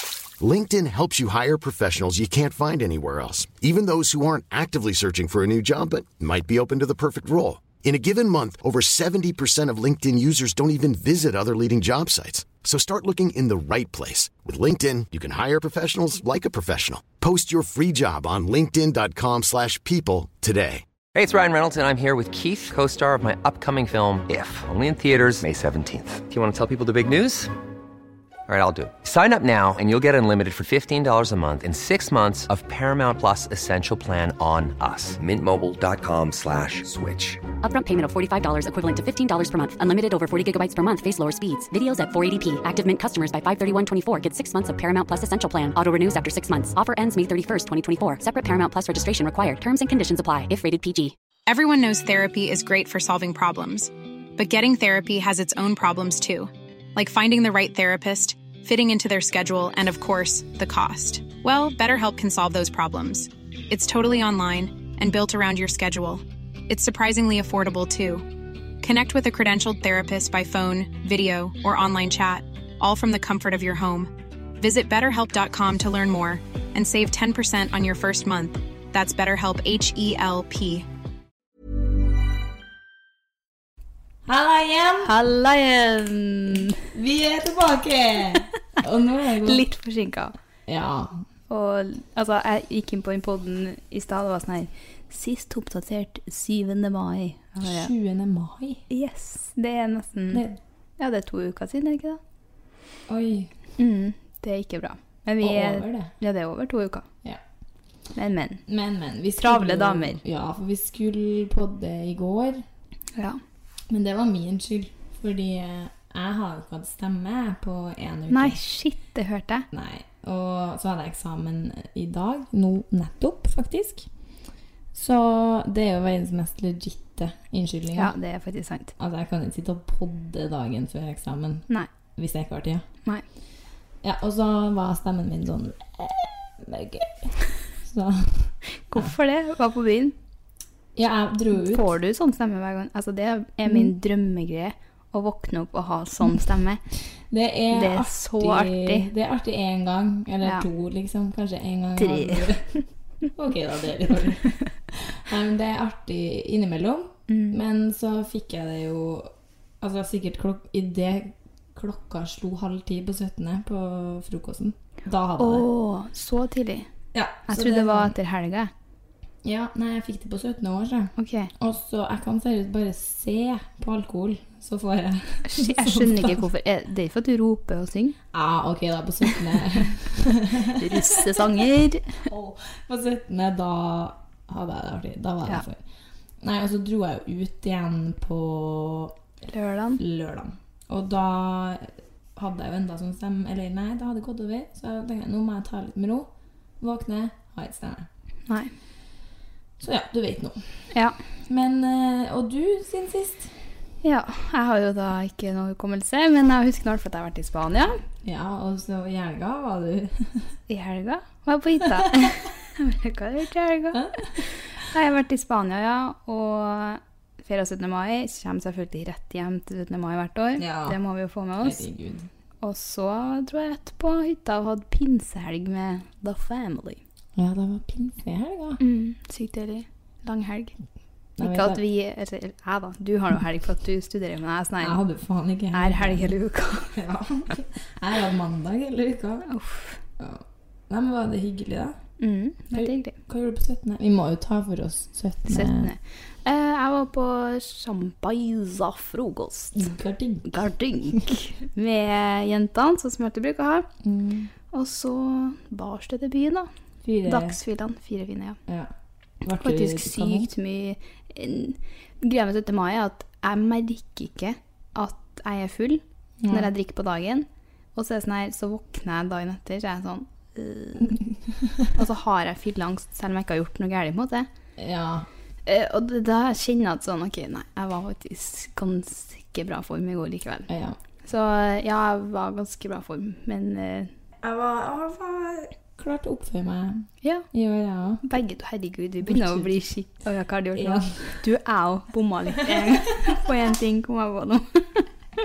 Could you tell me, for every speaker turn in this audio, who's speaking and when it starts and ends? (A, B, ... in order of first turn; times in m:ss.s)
0:00.4-0:20.8 A
0:21.1-0:27.5 B
0:28.5-0:37.4 B
0:37.6-0:51.2 C
0:51.5-1:08.3 D
1:08.8-1:20.9 D
1:24.3-1:25.1 E
1:25.0-1:26.8 F
1:26.9-1:29.6 E
1:29.4-1:30.3 F
1:30.7-1:31.2 E
1:31.5-1:37.9 F
1:37.6-1:38.8 E
1:38.9-1:40.4 F
1:40.3-1:40.6 E
1:41.0-1:42.2 F
1:43.1-1:43.5 E
1:43.8-1:47.1 F
1:45.4-1:46.1 E
1:48.2-1:48.6 F
1:48.7-1:52.6 E
1:49.4-1:50.2 F
1:53.9-1:58.6 E
1:58.3-1:59.7 F
1:59.7-2:04.1 E
2:04.9-2:08.1 E
2:08.0-2:08.9 F
2:09.0-2:12.8 E
2:14.0-2:19.1 E
2:18.8-2:20.2 F
2:21.0-2:21.9 E
2:21.6-2:26.8 F
2:23.7-2:23.9 E
2:27.3-2:32.6 E
2:27.7-2:29.1 F
2:32.0-2:32.8 F
2:33.4-2:45.7 E
2:37.3-2:37.6 F
2:45.4-2:46.9 F
2:47.1-2:48.2 E
2:47.5-2:48.7 F
2:49.4-2:56.4 E
2:51.2-2:51.5 F
2:55.4-2:58.2 F
2:58.3-3:01.3 E
3:00.7-3:02.3 F
3:02.3-3:05.8 E
3:06.4-3:09.2 E
3:09.5-3:10.0 F
3:10.0-3:16.3 E
3:16.8-3:18.1 E
3:19.8-3:20.6 E
3:20.9-3:21.2 F
3:21.5-3:23.5 E
3:24.0-3:28.0 F
3:28.2-3:30.5 E
3:30.7-3:41.8 F
3:33.9-3:34.4 E
3:40.6-3:41.0 E
3:41.6-3:42.3 E
3:42.6-3:47.0 F
3:47.4-3:48.8 E
3:48.8-3:50.8 F
3:51.4-3:51.8 E
3:51.4-3:55.0 F
3:54.8-3:56.3 E
3:55.7-3:57.0 F
3:56.9-3:59.5 E
3:59.4-4:00.0 F
4:00.2-4:02.0 E
4:02.2-4:03.2 F
4:02.7-4:05.9 E
4:05.5-4:09.9 F
4:09.8-4:10.6 E
4:10.5-4:13.9 F
4:14.0-4:14.5 E
4:14.7-4:16.7 F
4:17.0-4:17.6 E
4:17.2-4:18.6 F
4:18.7-4:18.9 E
4:19.4-4:20.5 E
4:19.6-4:31.2 F
4:26.4-4:26.7 E
4:31.9-4:34.5 F
4:34.8-4:35.3 E
4:35.7-4:40.7 F
4:40.7-4:41.0 E
4:41.2-4:44.1 F
4:44.4-4:48.2 E
4:48.2-4:55.0 F
4:49.2-4:49.8 E
4:50.8-4:51.4 E